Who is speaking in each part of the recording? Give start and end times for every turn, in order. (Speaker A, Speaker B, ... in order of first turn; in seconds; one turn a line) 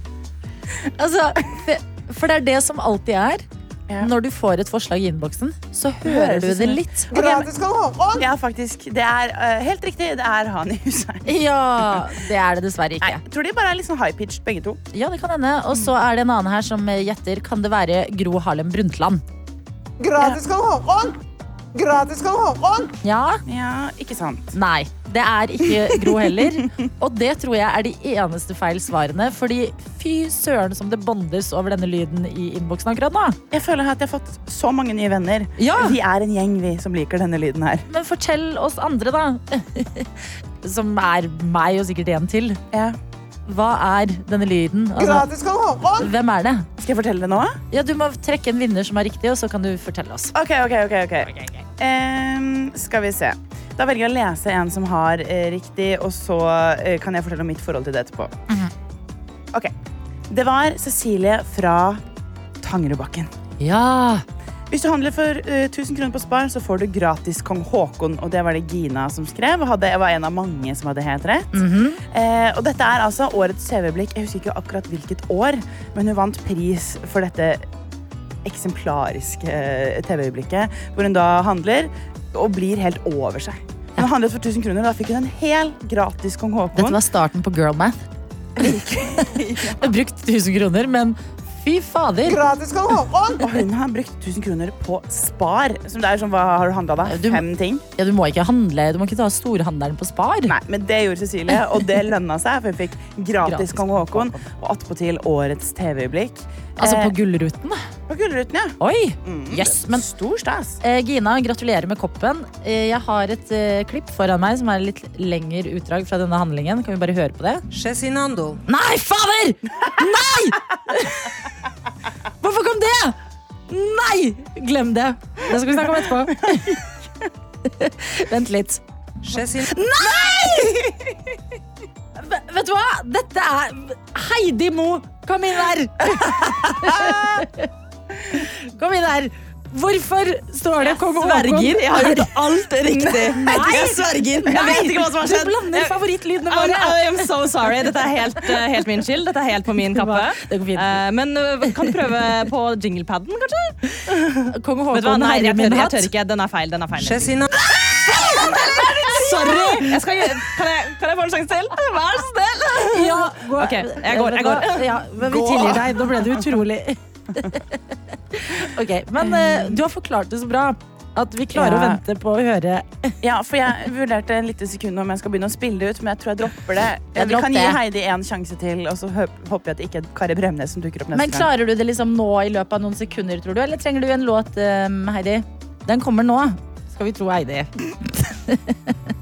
Speaker A: 1.0-3.4
Speaker A: 4.0-7.1
Speaker B: 6.0-7.5
Speaker C: 7.1-8.2
Speaker B: 8.2-11.3
Speaker A: 11.2-13.2
Speaker B: 13.0-14.8
Speaker A: 14.9-19.2
Speaker C: 20.0-21.1
Speaker C: 21.7-22.9
Speaker A: 23.0-23.4
Speaker B: 23.4-24.6
Speaker A: 24.5-33.4
Speaker B: 25.9-26.6
Speaker B: 33.5-37.9
Speaker A: 35.6-36.0
Speaker A: 37.9-42.6
Speaker B: 42.7-43.0
Speaker A: 43.5-45.3
Speaker C: 45.0-46.1
Speaker A: 46.0-46.7
Speaker B: 46.8-47.6
Speaker A: 47.7-50.3
Speaker B: 50.3-58.3
Speaker A: 51.3-51.6
Speaker B: 60.3-62.0
Speaker B: 62.6-63.3
Speaker A: 63.6-64.2
Speaker B: 64.7-77.6
Speaker A: 71.5-72.0
Speaker B: 78.4-87.0
Speaker A: 86.7-88.0
Speaker B: 88.5-89.9
Speaker A: 89.8-92.4
Speaker C: 92.2-93.5
Speaker B: 93.4-97.8
Speaker A: 97.0-97.4
Speaker A: 98.0-100.5
Speaker B: 100.5-107.1
Speaker A: 103.4-104.4
Speaker A: 106.8-107.8
Speaker B: 108.1-110.8
Speaker A: 108.8-110.0
Speaker A: 110.8-117.6
Speaker D: 117.7-118.6
Speaker A: 118.7-121.3
Speaker A: 122.4-123.2
Speaker A: 123.7-126.7
Speaker B: 126.4-126.8
Speaker A: 127.6-128.8
Speaker D: 129.2-129.7
Speaker A: 129.7-130.8
Speaker B: 130.2-131.1
Speaker A: 132.2-137.7
Speaker A: 138.3-142.4
Speaker E: 140.9-143.9
Speaker B: 142.8-145.6
Speaker A: 143.1-147.3
Speaker E: 144.5-153.8
Speaker A: 149.9-151.0
Speaker A: 154.1-156.1
Speaker E: 154.9-157.5
Speaker D: 156.9-157.5
Speaker E: 158.1-165.9
Speaker A: 158.4-159.9
Speaker A: 162.8-167.8
Speaker A: 168.3-173.1
Speaker B: 169.2-169.8
Speaker B: 171.5-172.0
Speaker B: 173.2-181.5
Speaker A: 177.2-177.8
Speaker A: 181.1-188.9